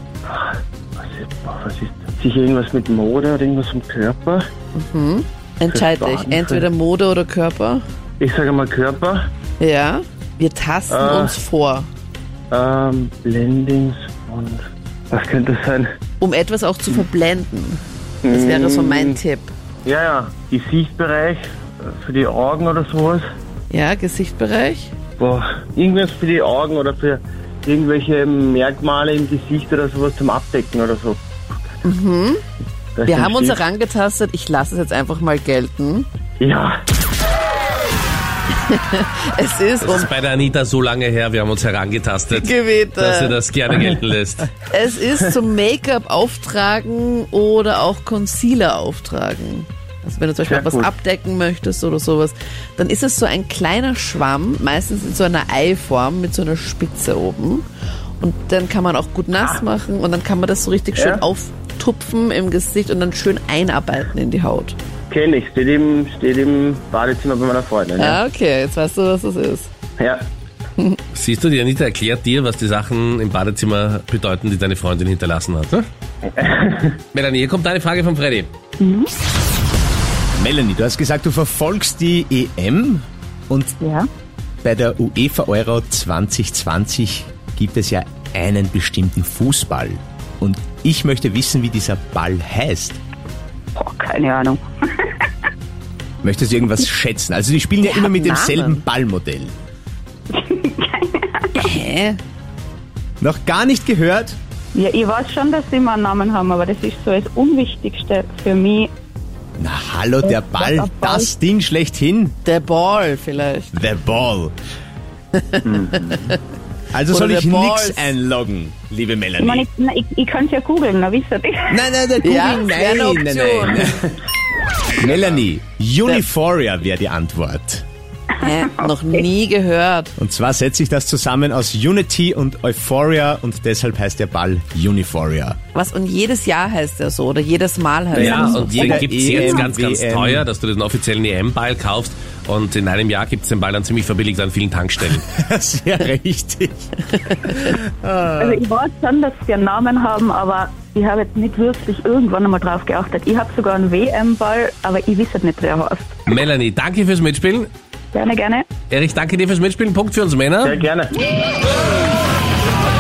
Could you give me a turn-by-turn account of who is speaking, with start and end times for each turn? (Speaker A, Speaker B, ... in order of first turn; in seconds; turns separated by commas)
Speaker A: 0.2-4.5, Speaker B: 4.7-7.8, Speaker A: 5.7-6.7, Speaker A: 8.2-9.3, Speaker B: 9.6-11.9, Speaker A: 10.9-11.3, Speaker A: 12.5-15.9, Speaker B: 16.2-19.5, Speaker A: 18.2-19.2, Speaker A: 19.8-23.2, Speaker B: 23.7-24.9, Speaker A: 25.2-31.2, Speaker B: 31.8-32.4, Speaker A: 33.0-33.6, Speaker B: 33.0-36.0, Speaker A: 36.4-36.8, Speaker B: 38.7-40.1, Speaker C: 39.8-44.5, Speaker B: 42.4-43.4, Speaker B: 44.6-57.6, Speaker A: 50.4-50.9, Speaker B: 58.2-64.8, Speaker A: 60.9-61.2, Speaker A: 65.1-68.2, Speaker B: 68.0-69.7, Speaker A: 70.0-70.3, Speaker C: 71.1-75.8, Speaker A: 76.2-77.0, Speaker C: 77.1-78.5, Speaker D: 78.8-79.1, Speaker E: 80.3-83.7, Speaker D: 83.8-84.1, Speaker E: 84.6-93.0, Speaker D: 93.8-95.3, Speaker E: 96.2-99.5, Speaker B: 97.8-98.8, Speaker D: 100.3-101.8, Speaker B: 101.6-102.2, Speaker E: 103.2-104.4, Speaker D: 104.7-108.9, Speaker E: 109.6-112.3, Speaker D: 110.2-111.3, Speaker B: 112.4-113.8, Speaker E: 113.7-114.5, Speaker B: 115.4-116.3, Speaker E: 116.9-119.7, Speaker B: 117.1-118.1, Speaker D: 119.4-121.8, Speaker E: 121.7-124.1, Speaker B: 122.2-123.9, Speaker E: 125.0-127.8, Speaker D: 128.4-129.2, Speaker B: 128.4-130.1, Speaker E: 130.2-135.6, Speaker B: 135.7-139.4, Speaker C: 138.1-145.2, Speaker E: 138.2-140.4, Speaker E: 145.2-148.6, Speaker D: 148.4-156.1, Speaker C: 156.3-157.7, Speaker D: 158.1-158.7, Speaker C: 158.9-160.8, Speaker A: 160.6-161.1